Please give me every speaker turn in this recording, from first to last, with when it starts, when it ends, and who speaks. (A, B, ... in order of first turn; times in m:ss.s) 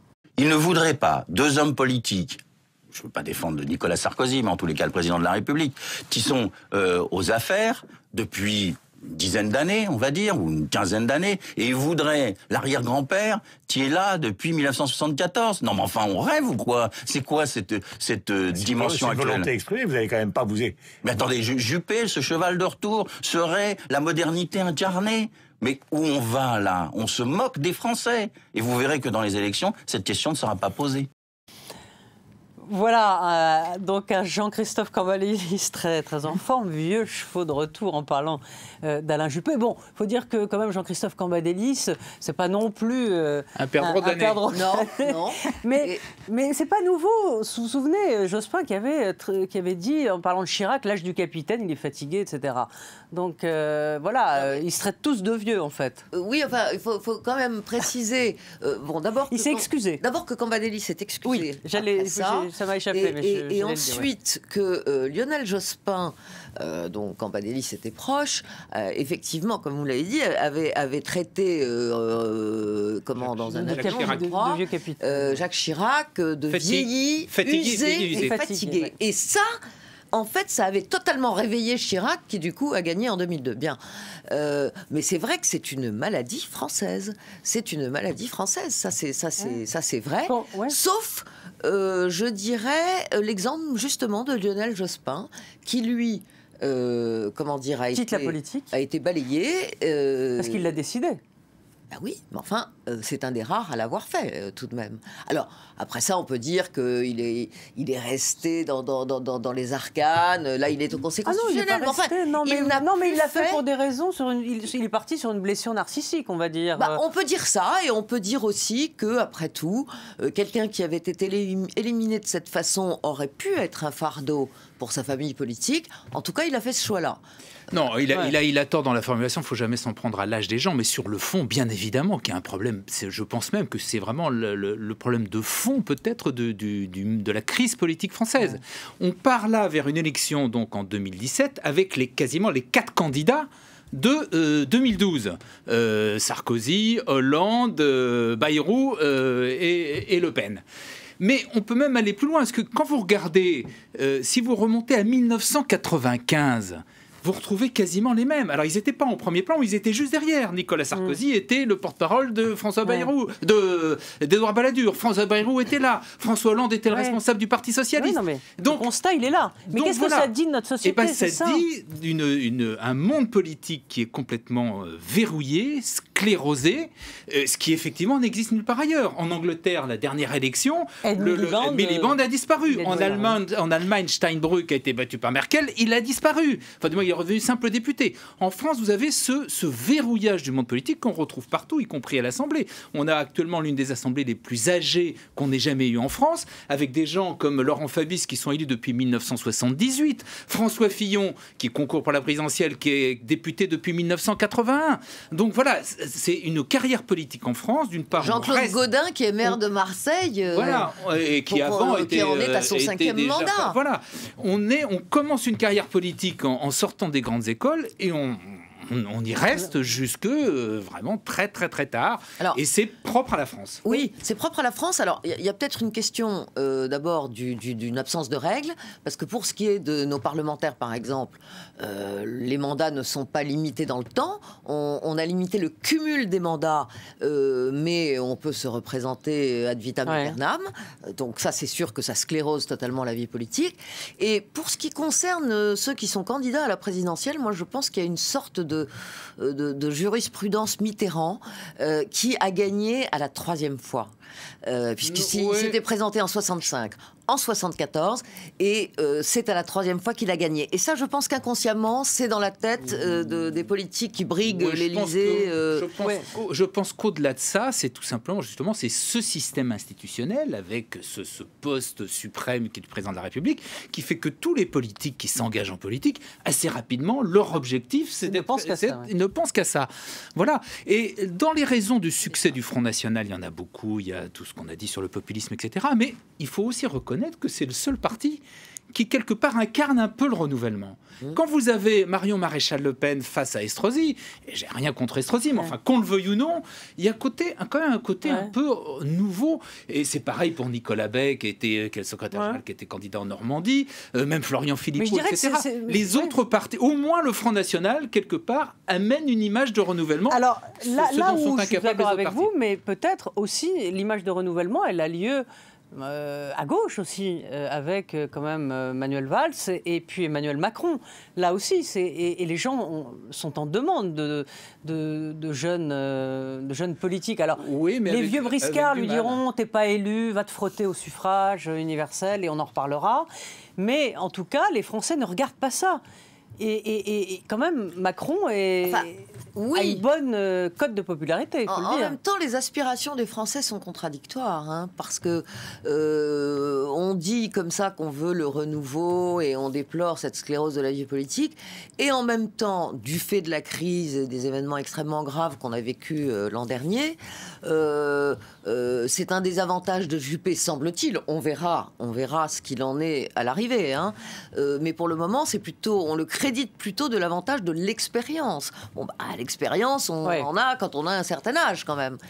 0:00.4-0:02.4 A
0:02.9-0:19.5 A
0:18.5-0:21.0 B
0:21.0-0:31.1 A
0:32.6-0:56.0 C
0:43.6-0:44.4 D
0:44.5-0:46.0 E
0:54.3-0:54.6 E
0:56.1-1:19.5 E
0:59.3-1:00.0 C
1:01.2-1:04.1 C
1:13.2-1:14.2 D
1:13.6-1:15.4 C
1:16.5-1:18.4 D
1:18.1-1:18.9 C
1:20.1-1:23.8 E
1:24.3-1:40.7 E
1:30.3-1:30.8 C
1:37.9-1:38.7 C
1:40.4-1:41.2 C
1:41.9-1:53.6 E
1:51.2-1:57.0 C
1:56.8-2:07.2 E
2:07.7-2:30.6 D
2:31.2-2:48.9 D
2:40.9-2:41.2 C
2:42.8-2:43.1 C
2:46.9-2:47.2 C
2:48.0-2:51.6 C
2:49.7-2:50.3 D
2:50.8-3:28.8 D
3:01.0-3:03.4 C
3:28.2-3:30.9 E
3:30.5-3:43.8 D
3:31.5-3:33.8 E
3:43.8-4:14.1 E
4:00.0-4:00.4 C
4:14.6-4:25.8 E
4:15.0-4:15.8 D
4:24.4-4:48.4 D
4:26.0-4:26.2 C
4:38.2-4:39.1 C
4:48.9-5:12.5 D
4:58.2-4:58.5 C
5:02.3-5:02.6 C
5:05.0-5:06.4 C
5:10.3-5:36.0 C
5:27.6-5:29.4 D
5:36.6-5:42.1 C
5:38.8-5:40.0 E
5:41.7-6:12.2 E